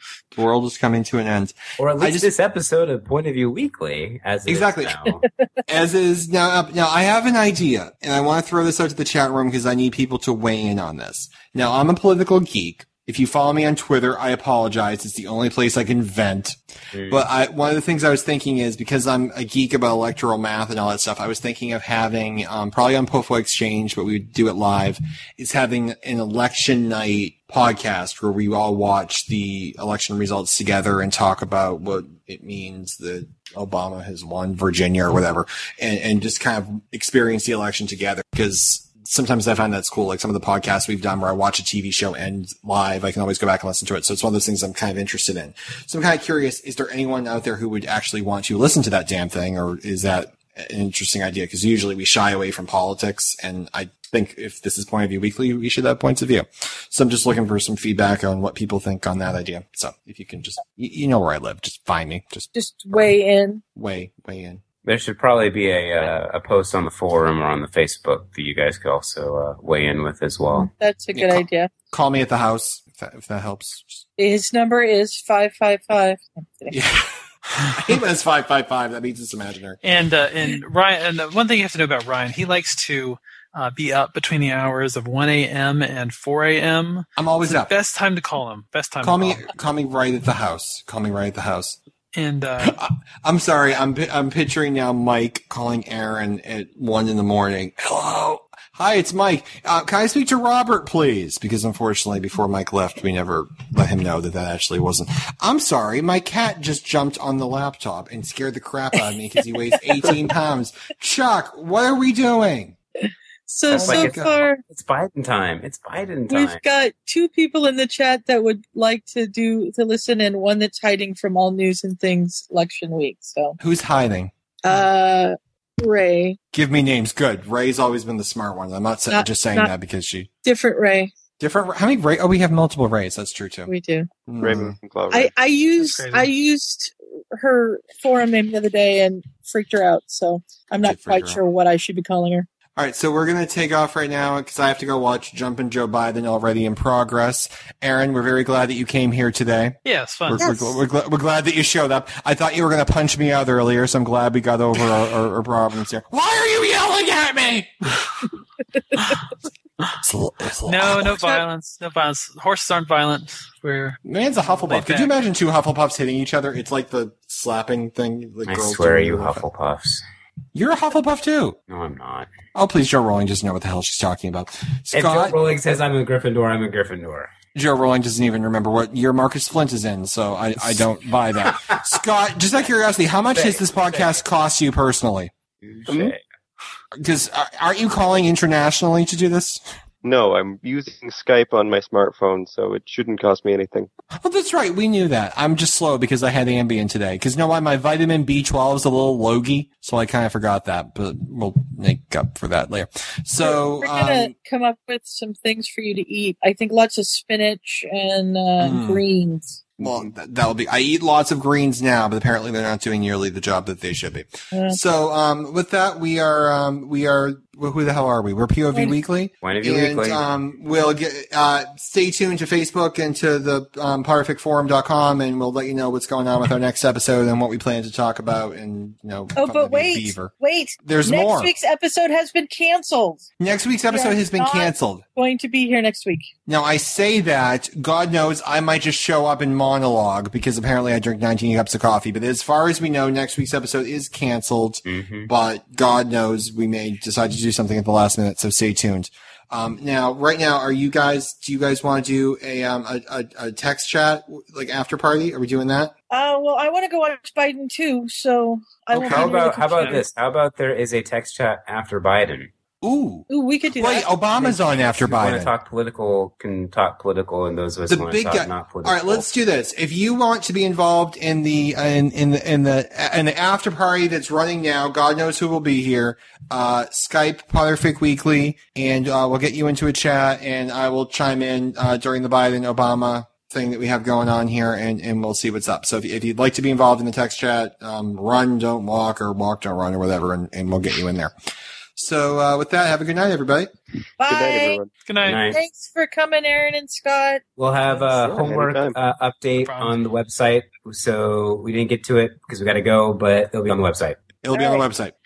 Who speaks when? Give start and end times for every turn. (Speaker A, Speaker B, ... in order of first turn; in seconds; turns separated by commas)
Speaker A: 0.3-2.3, Speaker B: 1.8-5.2, Speaker A: 4.5-5.0, Speaker A: 5.7-63.1, Speaker B: 16.9-17.2, Speaker C: 62.5-63.6, Speaker A: 63.7-64.6, Speaker B: 64.8-70.7, Speaker C: 70.5-71.7, Speaker A: 71.1-74.0, Speaker C: 74.2-76.8, Speaker A: 76.7-77.2, Speaker A: 77.7-79.8, Speaker D: 79.8-89.5, Speaker A: 87.2-87.7, Speaker A: 89.0-91.8, Speaker D: 92.1-92.8, Speaker A: 92.6-112.8, Speaker C: 113.0-114.6, Speaker B: 113.7-116.6, Speaker A: 113.7-114.4, Speaker C: 116.3-123.6, Speaker A: 123.6-124.3, Speaker C: 124.6-126.4, Speaker A: 126.5-130.3, Speaker C: 129.1-129.7, Speaker C: 130.4-131.1, Speaker A: 131.4-133.7, Speaker C: 133.7-134.1, Speaker A: 134.3-134.8, Speaker E: 134.4-135.3, Speaker C: 135.1-142.5, Speaker D: 135.8-136.3, Speaker A: 140.8-141.4, Speaker A: 142.8-158.0, Speaker D: 149.8-150.6, Speaker C: 150.4-150.7, Speaker A: 160.0-161.3, Speaker D: 160.6-165.1, Speaker A: 164.0-169.4, Speaker B: 168.5-170.0, Speaker A: 170.5-171.6, Speaker B: 171.7-172.3, Speaker A: 172.5-175.4, Speaker B: 174.9-177.3, Speaker A: 177.5-185.3, Speaker B: 181.5-181.8, Speaker B: 183.3-184.2, Speaker B: 185.6-186.2, Speaker E: 185.9-186.1, Speaker A: 186.9-189.6, Speaker E: 190.0-193.9, Speaker A: 194.2-204.3, Speaker C: 203.4-209.6, Speaker A: 208.6-209.0, Speaker A: 209.8-230.3, Speaker C: 214.5-214.8, Speaker B: 219.4-220.2, Speaker C: 229.3-233.3, Speaker A: 230.8-231.5, Speaker A: 233.4-235.0, Speaker C: 233.9-236.3, Speaker A: 236.5-255.9, Speaker B: 244.8-245.3, Speaker C: 256.1-260.0, Speaker B: 258.9-262.5, Speaker A: 259.0-259.3, Speaker A: 262.8-265.5, Speaker C: 263.3-264.1, Speaker B: 264.4-269.2, Speaker A: 267.9-291.3, Speaker A: 291.9-293.7, Speaker C: 294.2-294.8, Speaker E: 294.3-294.9, Speaker D: 295.0-295.4, Speaker B: 295.2-295.6, Speaker C: 295.5-297.4, Speaker B: 297.6-304.2, Speaker E: 298.1-298.9, Speaker D: 299.6-300.0, Speaker A: 304.4-305.1, Speaker C: 304.5-304.8